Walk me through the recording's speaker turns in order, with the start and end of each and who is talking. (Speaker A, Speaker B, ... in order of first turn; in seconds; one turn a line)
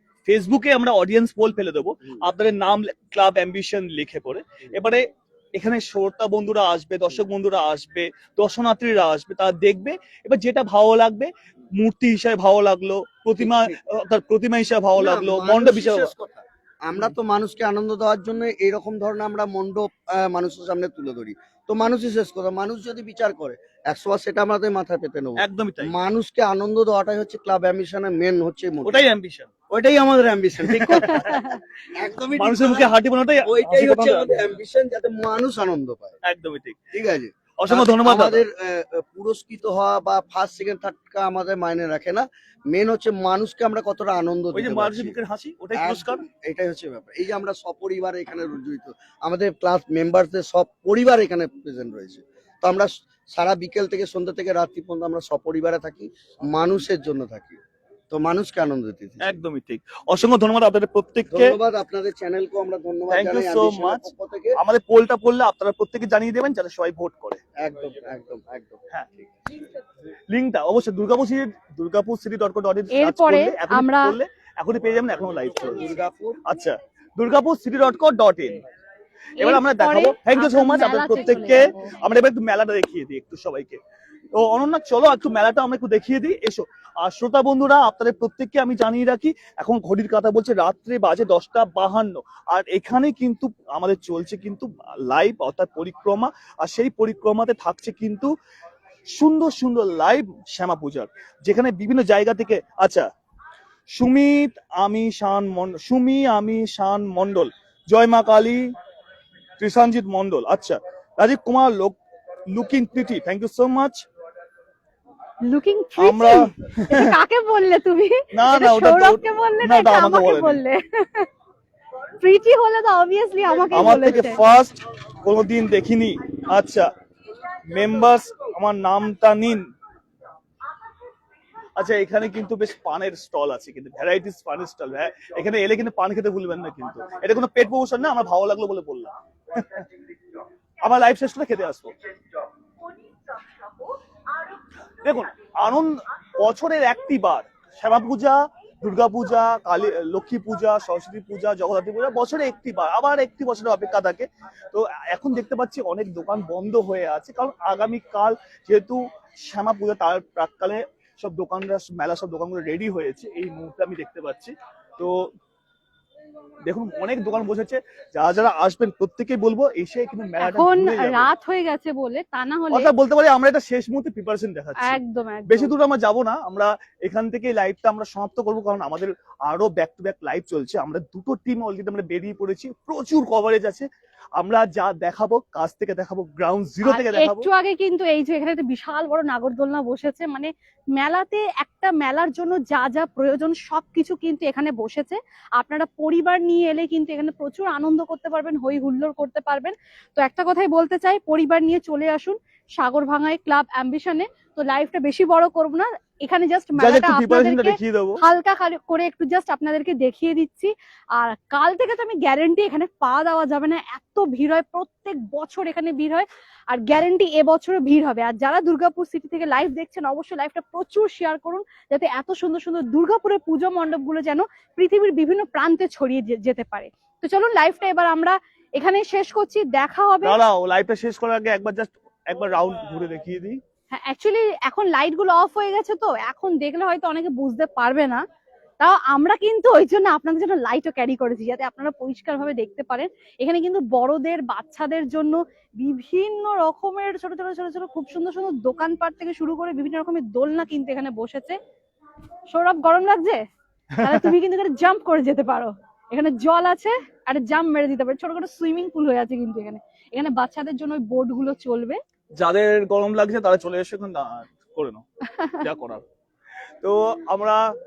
Speaker A: 0.2-16.1
Speaker B: 13.4-13.8
Speaker B: 15.0-29.1
Speaker A: 25.4-25.9
Speaker A: 28.9-29.5
Speaker B: 29.7-32.9
Speaker A: 30.6-31.3
Speaker C: 31.0-31.6
Speaker A: 32.4-34.3
Speaker B: 33.4-36.1
Speaker A: 36.2-36.8
Speaker B: 36.9-45.1
Speaker A: 37.6-38.4
Speaker A: 44.5-46.2
Speaker B: 45.8-59.4
Speaker A: 59.2-61.6
Speaker B: 61.3-64.6
Speaker A: 63.1-64.0
Speaker A: 64.6-67.4
Speaker B: 67.6-69.3
Speaker A: 70.3-78.6
Speaker C: 72.9-74.2
Speaker B: 75.5-76.4
Speaker C: 79.4-81.8
Speaker A: 79.4-83.8
Speaker A: 84.3-98.3
Speaker A: 99.1-103.1
Speaker A: 103.9-108.6
Speaker A: 109.6-112.0
Speaker A: 112.5-114.0
Speaker C: 115.4-121.3
Speaker A: 116.0-117.1
Speaker A: 118.3-120.6
Speaker C: 122.2-124.4
Speaker A: 123.7-126.9
Speaker A: 127.7-129.6
Speaker A: 131.8-139.8
Speaker A: 140.8-141.9
Speaker A: 145.0-165.3
Speaker A: 166.6-171.3
Speaker C: 170.4-172.9
Speaker A: 172.7-187.5
Speaker C: 174.8-175.7
Speaker C: 186.8-230.4
Speaker A: 206.8-208.2
Speaker A: 230.2-233.6
Speaker C: 233.9-238.2
Speaker C: 238.8-251.6
Speaker C: 252.5-253.4
Speaker A: 254.0-254.3
Speaker C: 254.0-262.0
Speaker A: 262.4-265.0
Speaker A: 265.6-266.0
Speaker A: 266.8-267.6